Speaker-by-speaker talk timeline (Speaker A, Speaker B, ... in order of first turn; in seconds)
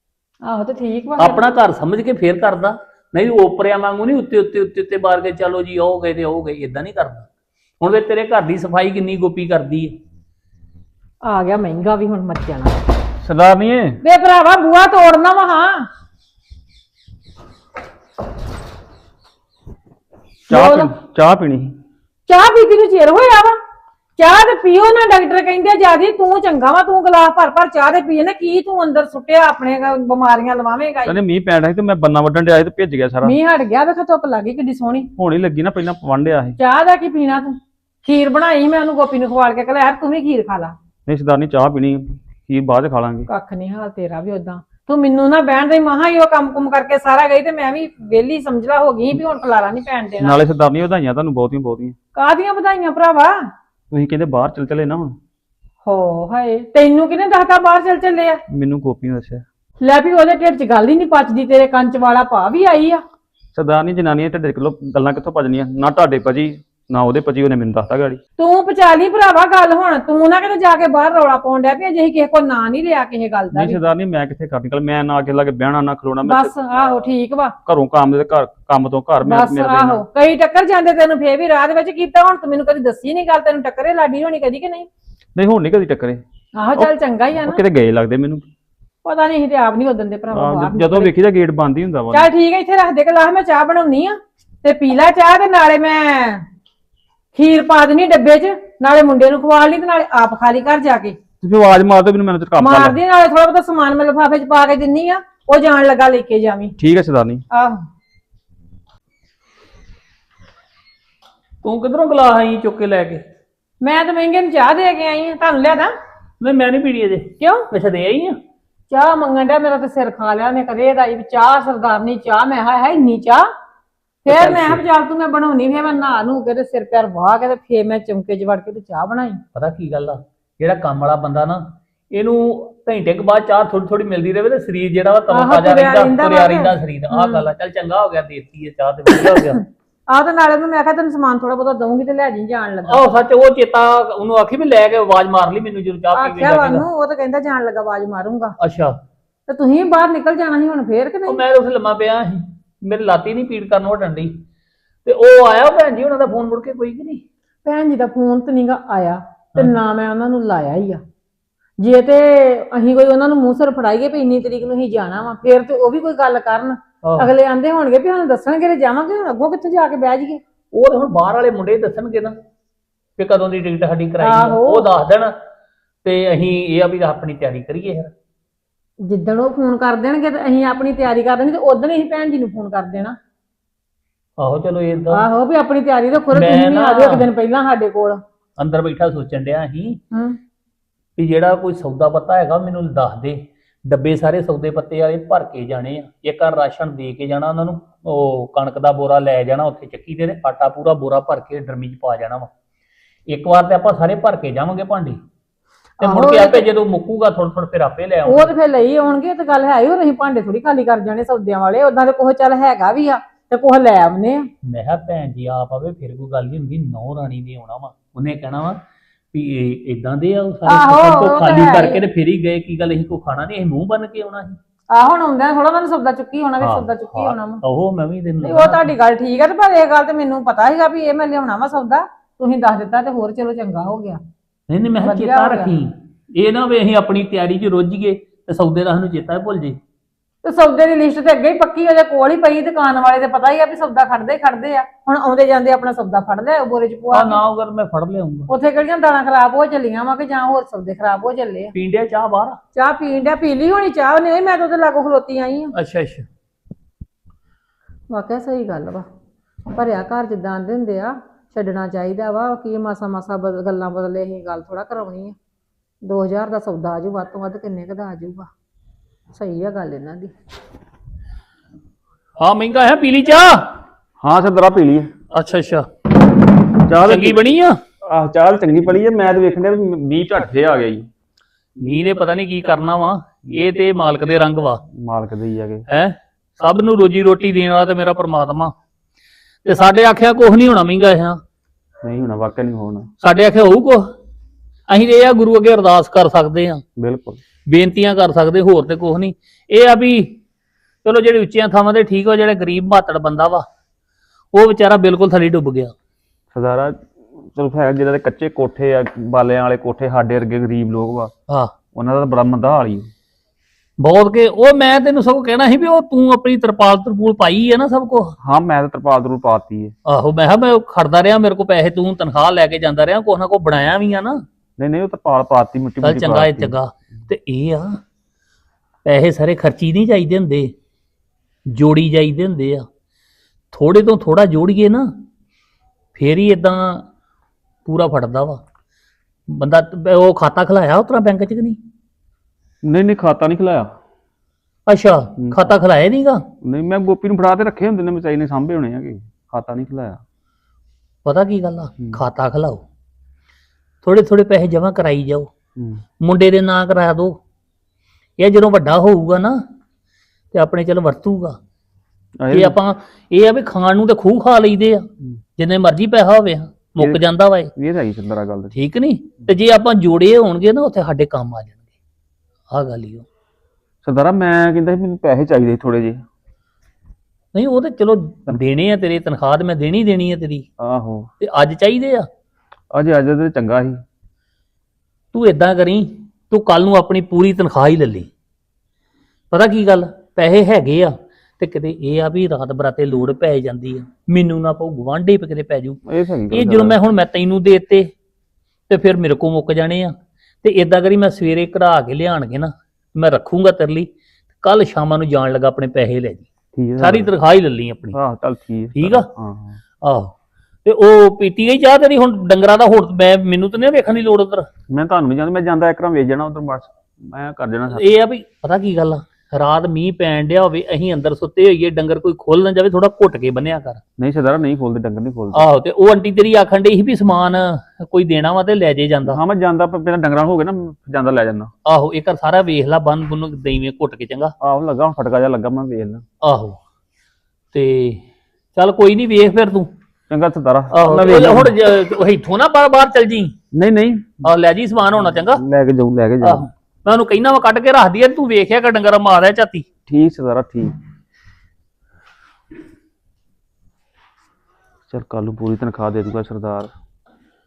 Speaker A: 0.4-1.4, 11.2-12.8, 14.0-15.9, 20.5-20.9, 22.3-23.6, 24.2-31.2, 33.2-35.1, 36.6-40.7, 43.3-50.4, 52.1-53.5, 55.8-58.4, 59.8-63.0, 68.4-73.8, 76.2-77.5, 79.2-84.9, 86.6-87.6, 89.0-91.1, 92.1-96.4, 97.3-101.2, 102.6-106.7, 107.5-107.8, 113.8-115.9, 117.4-117.7, 118.9-123.5, 124.2-129.4, 135.3-137.4, 139.2-139.6, 140.1-143.0, 146.1-148.6, 149.5-151.4, 157.6-161.0, 161.8-170.4, 174.2-174.9, 179.0-183.2, 185.1-188.2, 190.1-190.4, 206.0-206.6, 208.2-214.5, 220.7-222.0, 224.9-227.6, 228.4-234.2, 235.0-235.7, 240.4-247.4, 248.5-251.7, 252.7-255.7, 258.1-259.1, 259.7-265.4, 266.0-268.5, 269.3-270.3
Speaker B: 1.2-7.3, 7.8-10.0, 111.6-113.2, 116.4-118.4, 124.3-124.8, 129.5-139.6, 142.9-146.9, 148.6-149.0, 151.3-154.4, 155.0-157.2, 167.0-167.3, 170.7-172.4, 173.2-175.4, 176.0-178.1, 184.4-185.2, 186.3-187.3, 188.6-190.0, 191.2-202.5, 203.3-205.2, 206.0-208.5, 214.6-218.8, 219.3-224.6, 226.6-228.9, 234.7-239.8, 247.1-248.5, 251.7-252.6, 255.7-256.2, 272.4-273.8, 275.3-275.9, 277.0-277.8, 281.8-284.8, 285.9-288.7, 289.6-291.4, 293.2-294.1, 294.9-296.8, 297.7-300.4, 301.0-303.6, 304.5-305.9, 314.0-318.3, 320.1-324.4, 326.0-328.0, 329.0-330.7, 331.7-332.9, 333.7-335.1, 336.1-337.1, 337.8-338.6, 339.5-341.8, 344.9-346.4, 351.2-352.8, 354.0-355.5, 356.2-357.4, 358.4-359.6, 360.5-361.6, 362.5-367.7, 368.7-371.8, 372.7-373.2, 377.5-380.7, 381.4-382.3, 385.3-388.3, 389.5-396.0, 396.5-398.1, 398.9-404.1, 404.6-408.2, 408.9-409.3, 410.0-410.3, 410.8-414.7, 417.9-424.0, 425.5-429.4, 431.9-434.5, 436.4-436.8, 437.7-438.2, 438.7-439.9, 440.9-443.5, 444.4-445.6, 446.4-449.9
Speaker C: 13.2-14.0, 20.5-21.8, 31.0-33.4, 35.1-36.6, 41.1-43.3, 50.2-52.0, 53.9-55.2, 58.5-59.4, 63.5-68.2, 73.5-76.6, 77.6-80.0, 85.3-86.2, 86.7-88.5, 90.3-92.3, 101.4-103.0, 106.8-107.4, 274.2-275.1, 276.8-277.4, 278.0-281.1, 284.9-285.9, 292.0-293.1, 297.0-297.4, 306.5-311.3, 311.9-313.1, 318.4-319.9, 324.8-326.7, 342.8-343.9, 345.4-345.6, 346.6-350.2, 355.8-356.0, 362.4-362.8, 367.8-368.7, 374.0-376.2, 380.8-381.3, 382.9-384.0, 396.1-397.0, 406.7-407.3, 408.1-409.8, 414.9-418.1, 424.2-425.7, 429.2-431.7, 434.6-436.2, 440.3-441.7, 443.7-444.4, 445.5-446.6, 450.1-451.0, 455.1-456.9